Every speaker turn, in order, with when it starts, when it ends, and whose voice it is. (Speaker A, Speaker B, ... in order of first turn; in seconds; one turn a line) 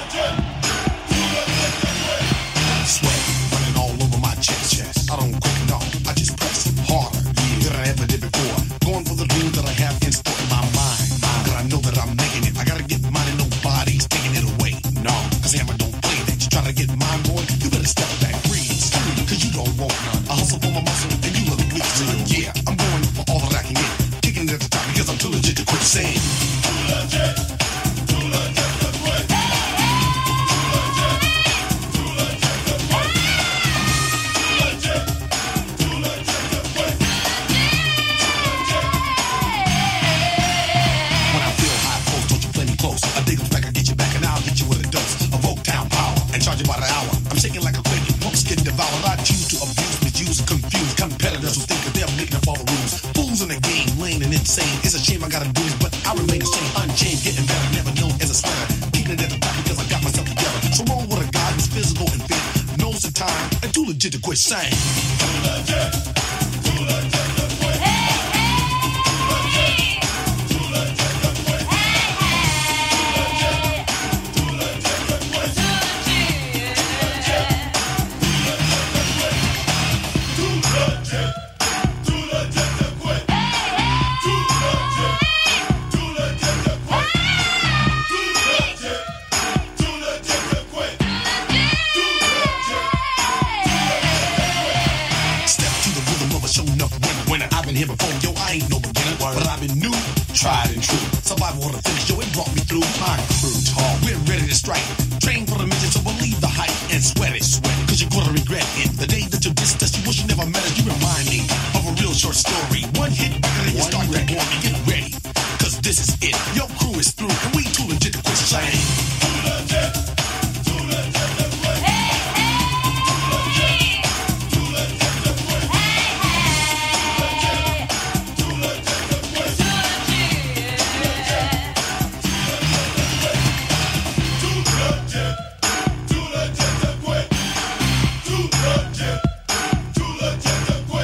Speaker A: 2.8-26.4
Speaker A: 41.3-64.9
Speaker A: 95.4-119.0